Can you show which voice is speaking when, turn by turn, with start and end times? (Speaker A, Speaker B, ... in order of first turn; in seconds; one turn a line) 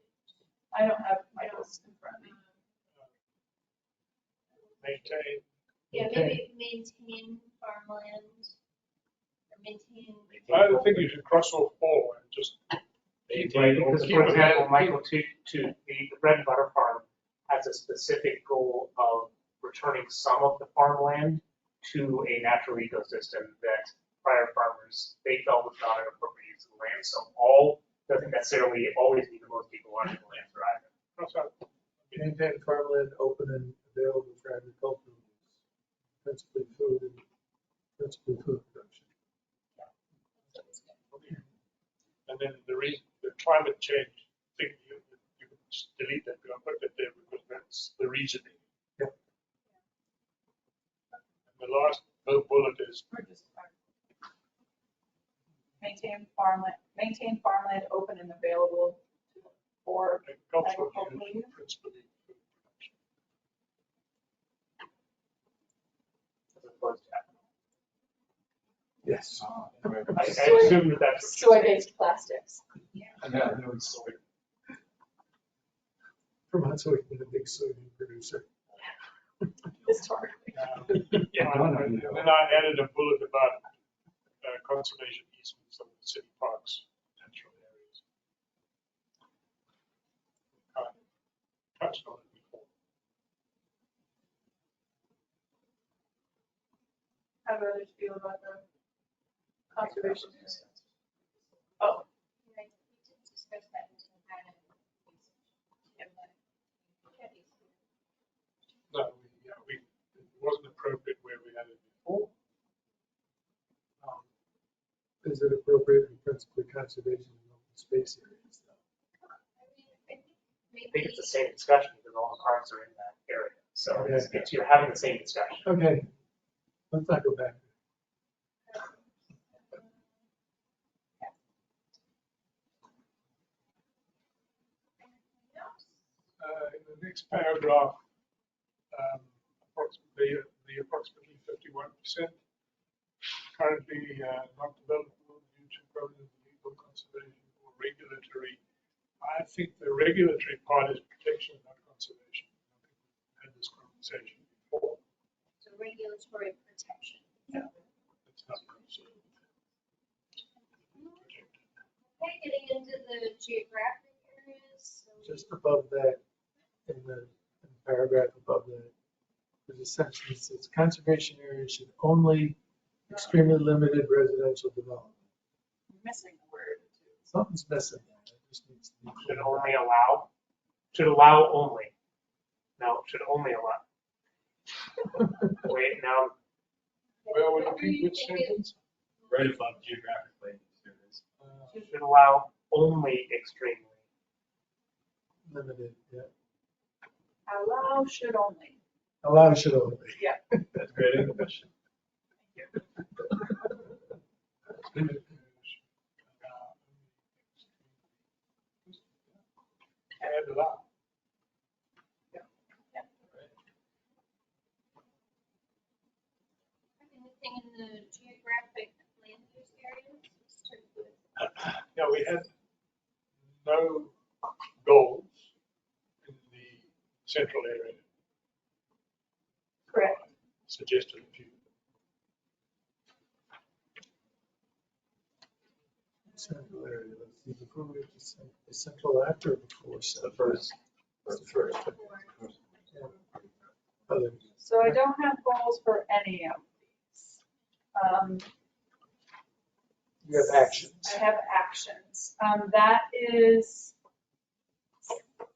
Speaker A: 0.7-2.4
Speaker B: 1.4-1.7
Speaker B: 2.2-2.5
Speaker C: 4.8-5.5
Speaker D: 5.9-6.5
Speaker B: 5.9-8.5
Speaker B: 9.5-10.4
Speaker E: 10.3-11.2
Speaker C: 10.5-15.0
Speaker E: 13.3-14.0
Speaker F: 13.4-30.9
Speaker C: 31.2-32.3
Speaker D: 32.2-35.5
Speaker D: 36.2-37.2
Speaker D: 38.0-39.0
Speaker B: 40.5-40.9
Speaker C: 41.1-41.4
Speaker C: 42.3-48.6
Speaker C: 51.5-53.0
Speaker A: 53.1-53.7
Speaker A: 55.8-61.5
Speaker C: 60.2-63.0
Speaker F: 66.5-67.4
Speaker D: 69.0-70.7
Speaker E: 69.4-70.1
Speaker F: 70.1-71.8
Speaker A: 70.2-72.6
Speaker E: 73.2-74.2
Speaker D: 76.5-78.5
Speaker A: 79.8-80.7
Speaker C: 80.5-83.7
Speaker D: 80.9-82.3
Speaker C: 84.4-88.0
Speaker C: 90.7-91.0
Speaker C: 91.8-92.7
Speaker A: 97.4-98.6
Speaker A: 99.7-100.6
Speaker F: 99.8-100.7
Speaker A: 101.8-102.0
Speaker B: 102.4-105.3
Speaker B: 105.9-106.3
Speaker B: 106.9-107.8
Speaker C: 108.9-112.3
Speaker D: 115.2-118.8
Speaker B: 119.5-121.4
Speaker F: 120.9-125.7
Speaker D: 123.9-124.4
Speaker D: 125.6-126.1
Speaker D: 126.9-127.7
Speaker B: 128.7-129.0
Speaker B: 129.6-129.9
Speaker B: 135.0-135.9
Speaker C: 136.4-138.0
Speaker C: 138.9-142.4
Speaker C: 143.5-148.6
Speaker C: 149.2-155.0
Speaker B: 155.6-157.6
Speaker C: 158.2-159.3
Speaker B: 160.9-161.3
Speaker C: 161.2-161.5
Speaker B: 162.1-165.5
Speaker D: 165.2-166.2
Speaker D: 166.9-168.9
Speaker D: 169.7-172.6
Speaker D: 173.1-175.2
Speaker A: 175.9-177.2
Speaker D: 177.3-179.8
Speaker F: 179.2-180.3
Speaker F: 180.9-181.9
Speaker F: 182.8-183.8
Speaker F: 185.5-186.3
Speaker B: 187.2-188.7
Speaker C: 187.3-188.7
Speaker E: 189.2-191.2
Speaker C: 191.4-191.8
Speaker F: 191.8-194.0
Speaker D: 195.5-196.3
Speaker A: 197.5-198.8
Speaker D: 199.2-201.3
Speaker E: 200.8-201.7
Speaker A: 202.5-202.8
Speaker C: 204.9-205.8
Speaker C: 206.4-208.0
Speaker C: 208.8-209.4
Speaker C: 210.2-210.8
Speaker B: 217.0-221.2
Speaker C: 221.8-222.5
Speaker C: 223.5-224.1
Speaker C: 224.8-225.4
Speaker C: 226.2-228.0
Speaker A: 229.9-230.2
Speaker C: 230.0-231.6
Speaker D: 236.3-240.7
Speaker E: 240.2-240.7
Speaker E: 241.2-243.7
Speaker D: 241.2-242.0
Speaker B: 241.8-242.3
Speaker D: 244.1-245.0
Speaker A: 244.6-247.4
Speaker A: 247.9-248.5
Speaker D: 250.2-251.2
Speaker A: 250.3-253.9